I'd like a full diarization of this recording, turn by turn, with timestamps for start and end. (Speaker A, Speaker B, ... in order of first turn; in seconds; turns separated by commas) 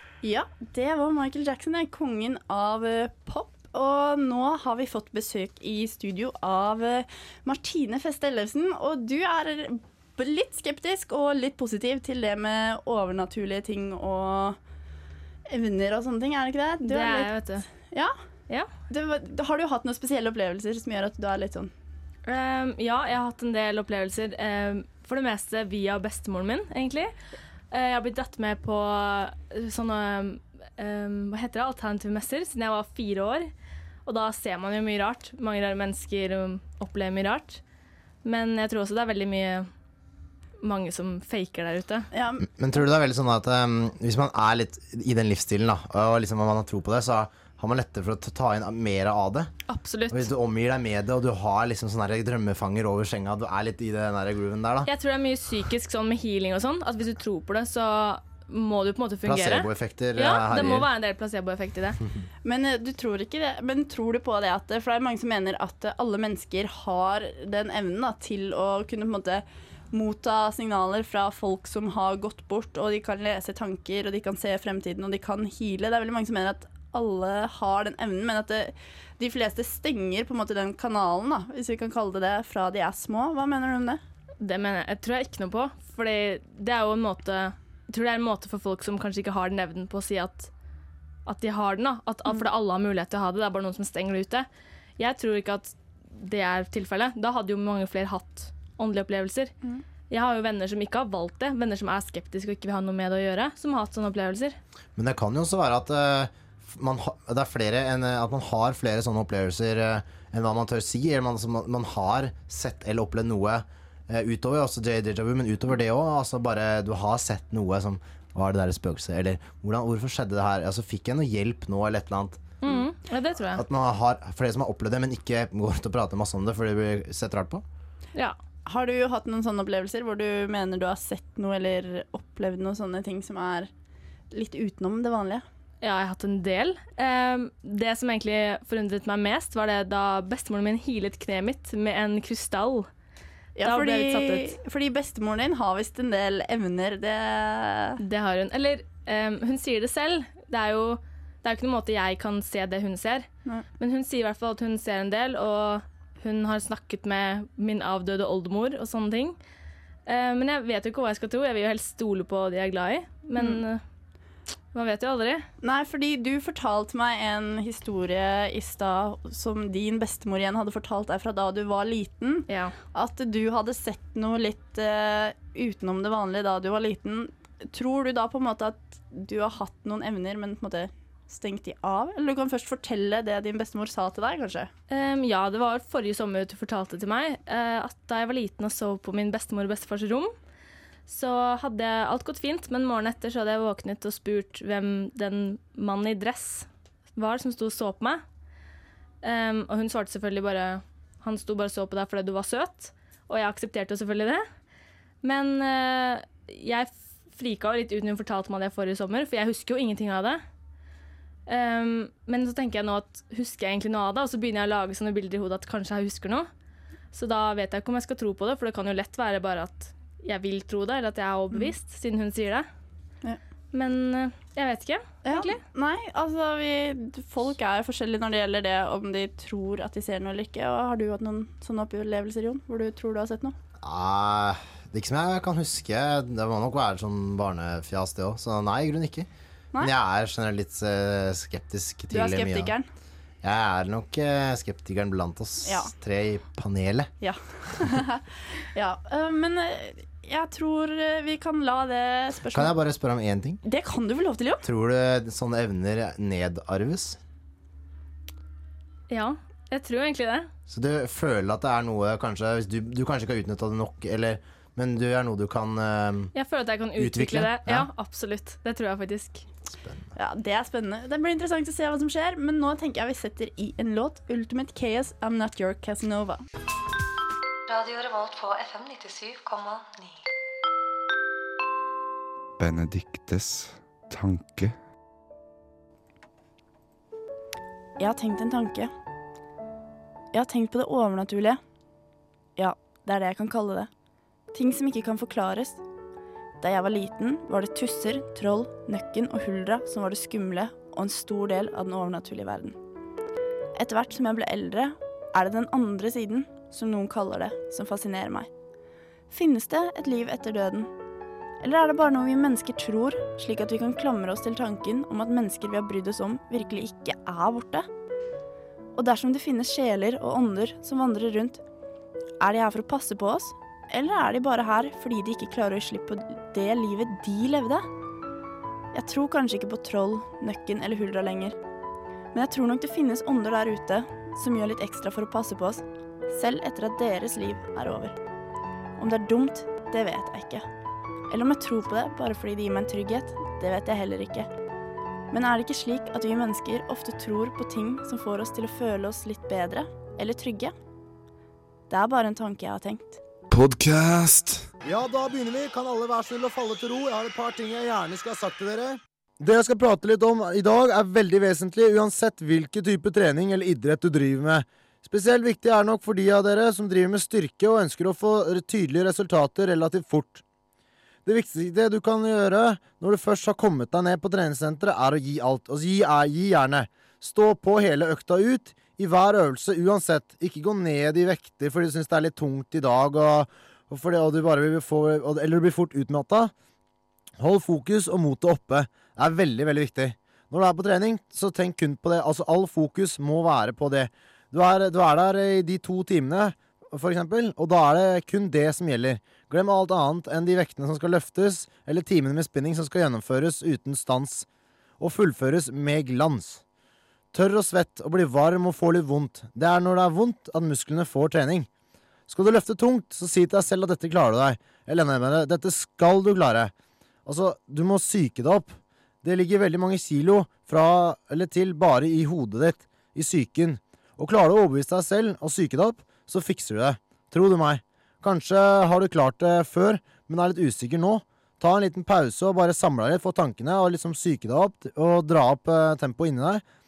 Speaker A: 0.2-14.6, Speaker A: 15.5-17.3, Speaker B: 16.9-17.7, Speaker A: 18.9-21.7, Speaker B: 22.3-27.1, Speaker B: 27.7-33.5, Speaker B: 34.0-37.6, Speaker B: 38.2-39.7, Speaker B: 40.6-42.1, Speaker A: 42.1-42.5, Speaker C: 42.4-49.5, Speaker B: 49.7-50.3, Speaker C: 50.1-54.9, Speaker B: 54.9-62.0, Speaker C: 59.2-60.9, Speaker A: 62.5-84.0, Speaker B: 84.4-90.5, Speaker B: 91.3-94.5, Speaker B: 95.0-99.5, Speaker B: 100.1-104.6, Speaker C: 105.0-122.4, Speaker B: 122.6-123.6, Speaker C: 123.5-127.6, Speaker A: 128.7-133.7, Speaker A: 134.3-135.4, Speaker B: 135.8-142.9, Speaker A: 143.6-148.0, Speaker B: 143.6-144.6, Speaker B: 148.0-159.4, Speaker B: 160.1-163.8, Speaker A: 163.4-163.6, Speaker B: 164.7-165.4, Speaker A: 165.6-184.7, Speaker B: 172.5-172.8, Speaker B: 184.9-190.3, Speaker B: 191.1-198.2, Speaker B: 199.2-204.5, Speaker B: 205.2-210.4, Speaker B: 211.5-216.5, Speaker B: 217.1-222.7, Speaker B: 223.7-225.6, Speaker A: 225.2-233.6, Speaker C: 233.8-239.3, Speaker C: 239.8-242.7, Speaker A: 242.1-242.9, Speaker C: 243.4-247.1, Speaker A: 245.7-245.9, Speaker A: 247.2-252.7, Speaker C: 252.5-253.6, Speaker A: 253.7-254.7, Speaker C: 254.7-257.2, Speaker B: 259.1-260.5, Speaker C: 260.7-266.3, Speaker B: 266.4-269.4, Speaker C: 267.0-267.9, Speaker C: 269.7-270.1, Speaker A: 270.2-276.4, Speaker D: 277.7-280.2, Speaker E: 282.6-284.8, Speaker A: 288.0-288.9, Speaker A: 290.3-291.6, Speaker A: 292.6-293.9, Speaker A: 294.5-295.8, Speaker A: 296.6-302.8, Speaker A: 303.8-308.5, Speaker A: 309.3-310.9, Speaker A: 311.6-317.9, Speaker A: 319.0-321.6, Speaker A: 322.4-327.9, Speaker A: 328.9-331.6, Speaker A: 332.3-338.1, Speaker A: 339.0-340.7, Speaker A: 341.3-344.5, Speaker A: 345.3-350.7, Speaker A: 351.9-353.2, Speaker E: 353.5-354.7, Speaker C: 354.8-370.4, Speaker C: 371.2-386.5, Speaker C: 387.4-404.5, Speaker C: 405.0-406.6, Speaker C: 407.3-411.7, Speaker C: 412.3-416.7, Speaker C: 417.3-436.6